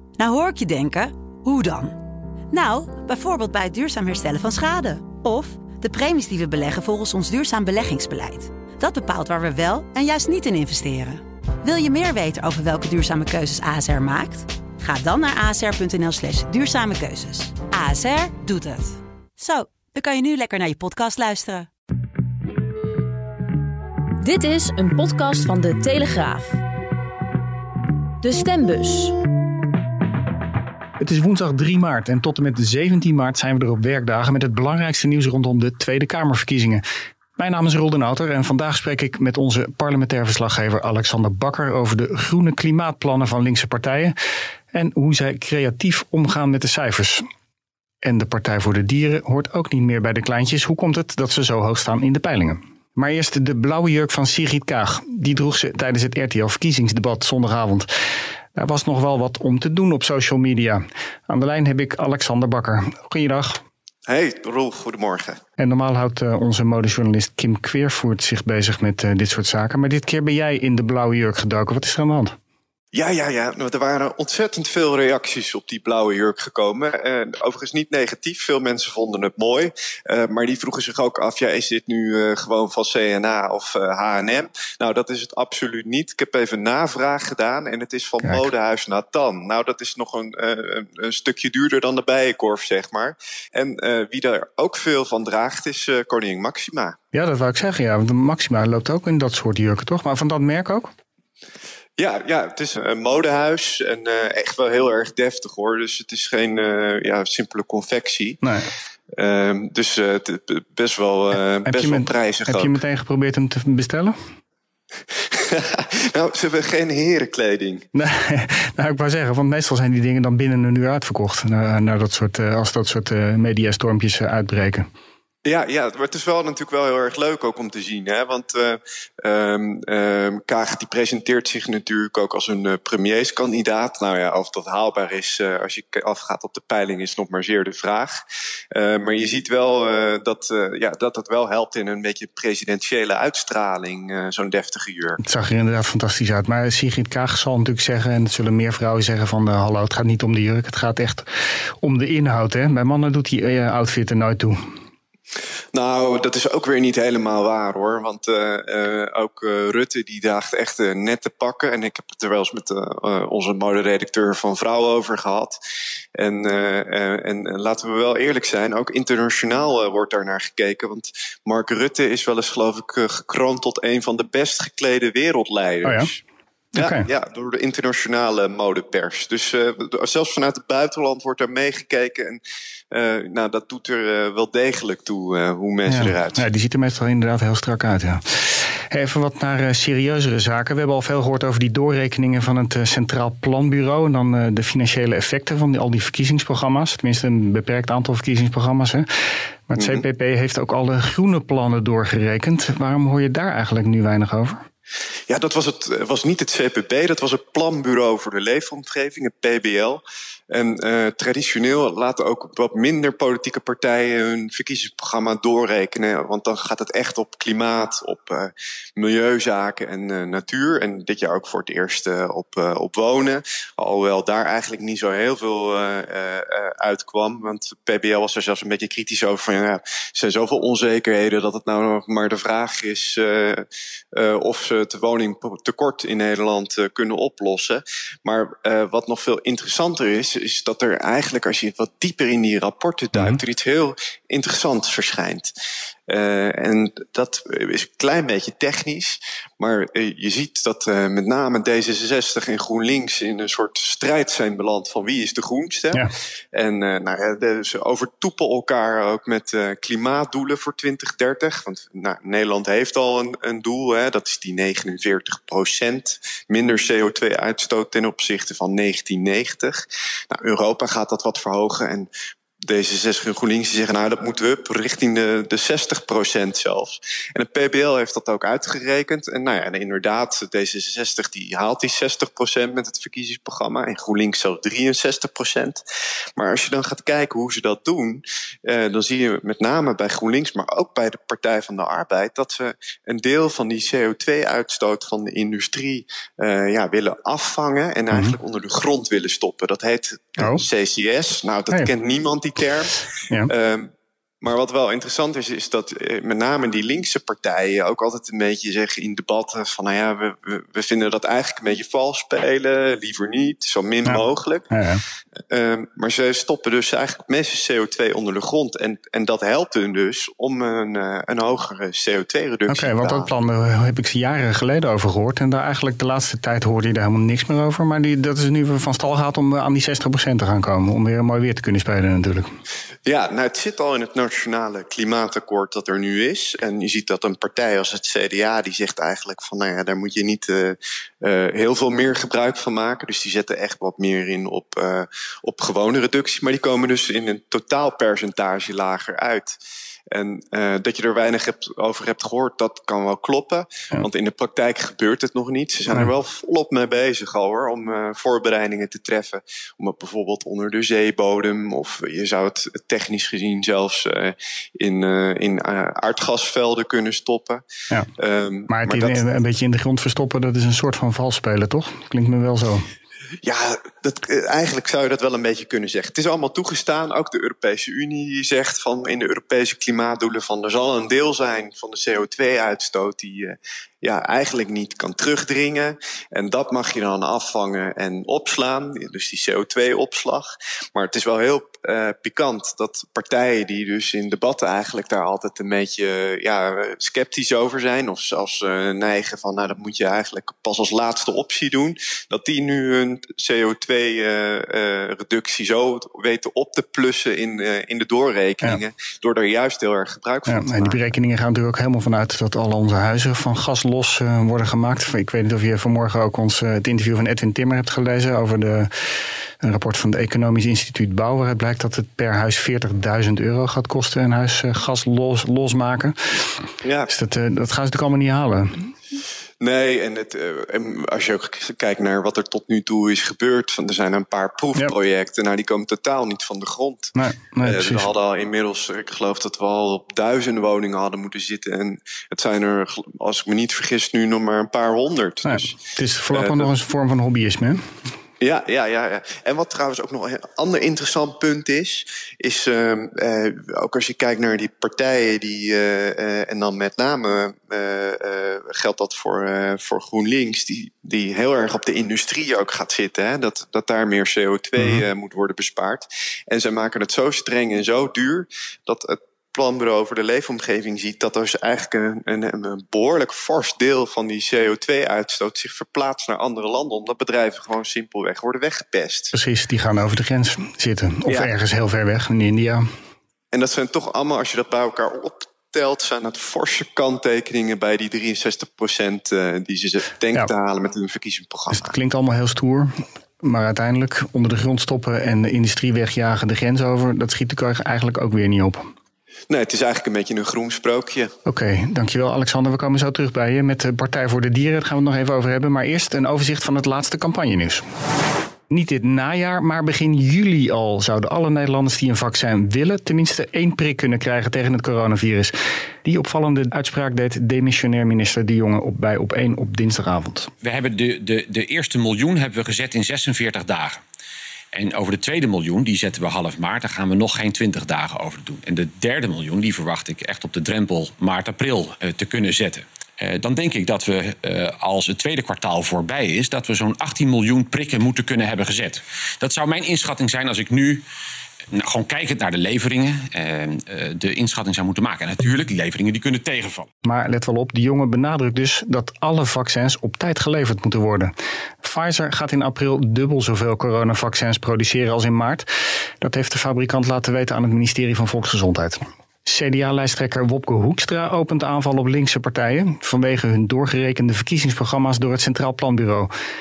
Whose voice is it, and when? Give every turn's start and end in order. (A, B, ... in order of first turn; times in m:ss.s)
0:00.2-0:02.0 A
0:02.5-0:21.7 A
0:24.2-0:26.6 B
0:28.2-0:29.2 B
0:31.0-0:36.8 C
0:37.4-0:44.2 C
0:44.7-0:47.2 C
0:48.0-0:57.9 C
0:58.6-1:03.6 C
1:04.1-1:05.4 D
1:05.6-1:12.4 C
1:12.9-1:37.0 D
1:37.1-1:40.9 C
1:42.0-1:48.4 D
1:48.4-1:48.7 C
1:49.2-1:52.8 D
1:51.7-1:54.1 C
1:55.3-1:57.9 D
1:57.9-2:04.9 C
2:05.4-2:18.1 D
2:18.8-2:25.2 D
2:25.2-2:31.2 C
2:31.8-2:34.6 C
2:35.7-2:45.6 D
2:46.2-2:56.2 D
2:55.8-2:56.1 C
2:56.8-2:57.1 C
2:56.8-3:02.4 D
3:02.9-3:06.5 D
3:05.9-3:19.1 C
3:19.7-3:24.6 C
3:19.8-3:20.0 D
3:25.3-4:05.5 D
4:06.1-4:32.1 D
4:32.7-4:45.8 D
4:46.4-5:03.9 D
4:58.1-4:58.4 C
5:04.4-5:14.7 D
5:14.1-5:15.0 C
5:15.5-5:23.3 D
5:22.7-5:32.5 C
5:33.1-5:49.6 D
5:50.1-6:07.6 D
6:08.2-6:09.2 D
6:08.7-6:12.9 C
6:13.4-6:51.0 D
6:50.5-6:58.9 C
6:59.6-7:06.6 C
7:06.8-7:07.1 D
7:07.1-7:08.9 C
7:09.6-7:26.7 D
7:17.2-7:18.1 C
7:25.4-7:27.8 C
7:28.4-7:59.4 D
7:44.8-7:45.0 C
7:59.3-8:02.8 C
8:01.3-8:01.5 D
8:03.5-8:11.9 D
8:11.7-8:12.9 C
8:13.4-8:18.8 C
8:19.5-8:21.3 D
8:21.4-8:27.8 C
8:28.7-8:35.5 C
8:36.0-8:40.5 C
8:40.6-8:44.0 E
8:44.7-9:01.0 E
9:01.7-9:06.9 E
9:07.0-9:15.7 C
9:16.2-9:26.3 C